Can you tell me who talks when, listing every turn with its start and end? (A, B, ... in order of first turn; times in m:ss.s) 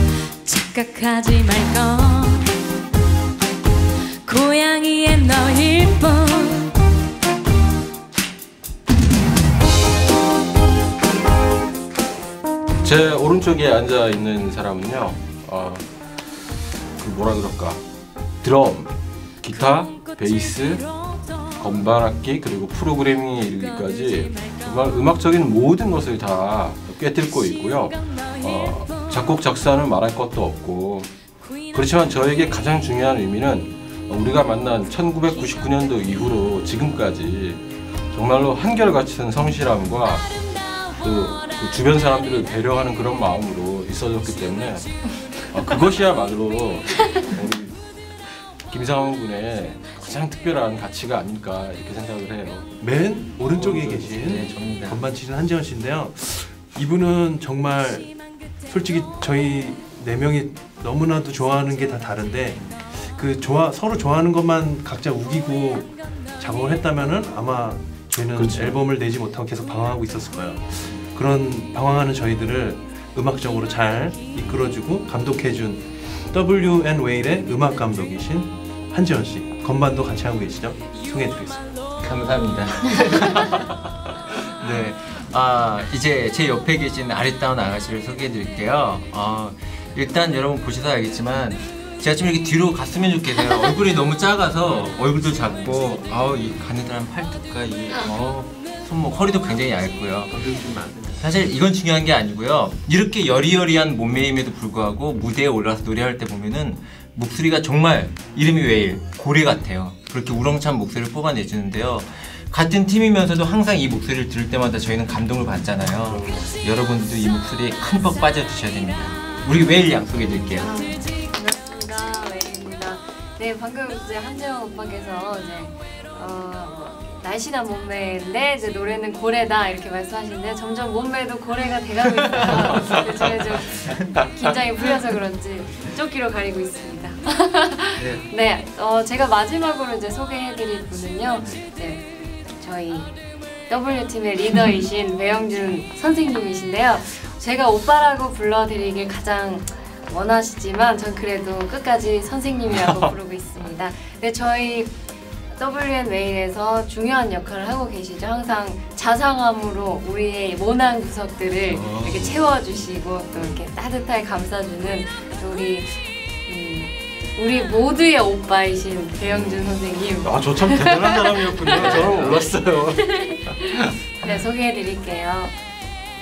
0:00.5-0:02.5 A
0:04.3-0:06.6 A
0:12.8-0:17.8 B
0:18.4-0:20.9 B
0:21.6-0:31.1 B
0:31.7-0:40.3 B
0:41.0-0:47.8 B
0:48.7-0:52.7 B
0:52.8-0:58.1 C
0:53.5-0:55.0 D
0:58.7-1:21.7 C
1:08.4-1:08.8 B
1:22.0-1:23.8 D
1:24.5-2:00.7 D
1:40.3-1:41.1 C
1:56.1-1:56.5 B
2:00.6-2:23.1 E
2:18.0-2:18.2 D
2:23.7-2:35.0 E
2:35.5-2:52.3 E
2:41.8-2:42.4 D
2:49.3-2:49.6 B
2:50.2-2:53.8 B
2:51.8-2:52.4 D
2:52.9-2:55.5 E